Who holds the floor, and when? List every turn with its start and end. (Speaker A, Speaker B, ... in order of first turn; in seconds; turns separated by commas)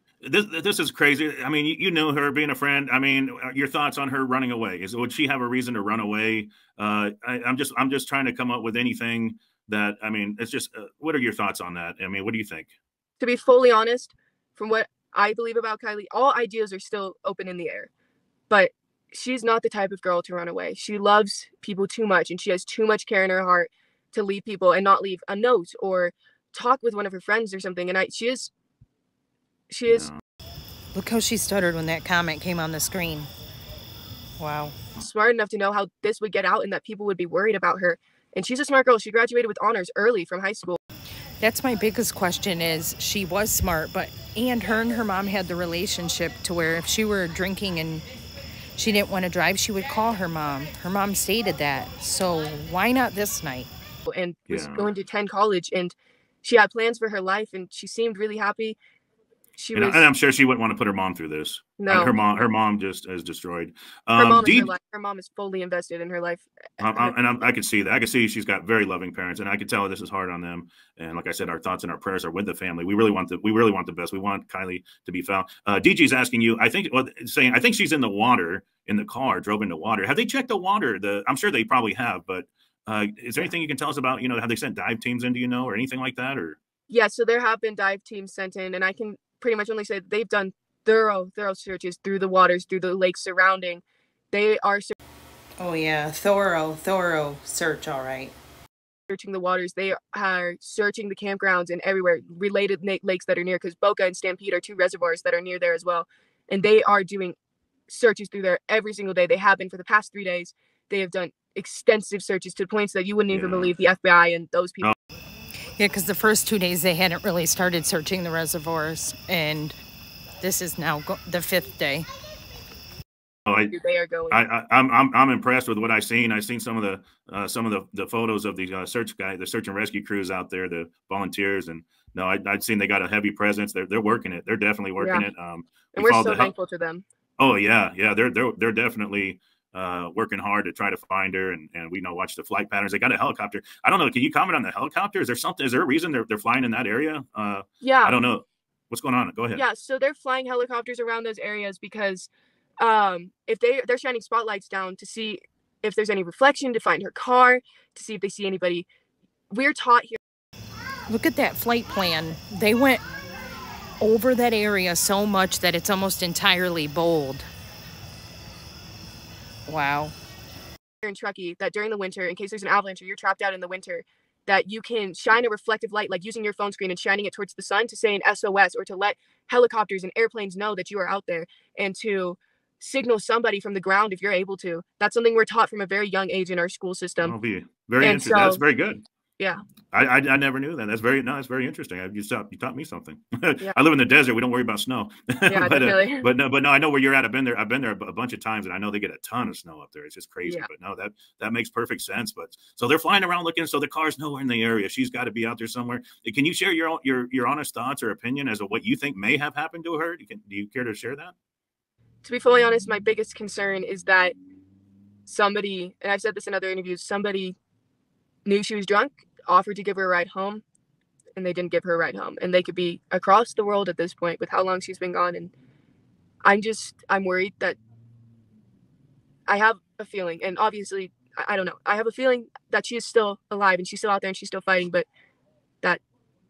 Speaker A: 0.2-12.7, Speaker B: 13.2-17.9, Speaker B: 18.5-28.5, Speaker B: 29.7-30.1, Speaker A: 29.9-30.2, Speaker C: 30.9-33.3, Speaker C: 34.4-34.8, Speaker B: 35.0-40.8, Speaker C: 41.4-48.0, Speaker C: 48.8-53.7, Speaker B: 54.1-58.8, Speaker A: 54.5-54.9, Speaker B: 59.6-60.1, Speaker A: 59.7-64.7, Speaker B: 61.8-62.2, Speaker B: 64.2-67.2, Speaker A: 66.8-86.6, Speaker B: 86.9-94.9, Speaker C: 95.6-98.3, Speaker B: 99.1-107.3, Speaker B: 107.9-114.9, Speaker A: 113.3-113.7, Speaker C: 115.8-119.8, Speaker C: 120.4-122.1, Speaker A: 123.5-123.7, Speaker B: 123.5-124.4, Speaker A: 124.3-136.5, Speaker B: 135.0-135.2, Speaker B: 135.9-137.0, Speaker A: 137.4-149.6, Speaker B: 147.8-148.2, Speaker B: 149.5-152.3, Speaker B: 152.8-158.8, Speaker B: 159.5-160.2, Speaker C: 161.1-163.0, Speaker C: 164.0-167.5, Speaker C: 169.7-170.1, Speaker B: 171.0-187.3, Speaker A: 187.2-189.0, Speaker B: 188.0-188.6, Speaker A: 189.9-211.3, Speaker B: 195.5-196.2, Speaker B: 212.2-214.3, Speaker B: 215.3-217.6, Speaker B: 218.4-220.6, Speaker B: 221.3-225.5, Speaker B: 226.4-227.8, Speaker B: 229.5-235.1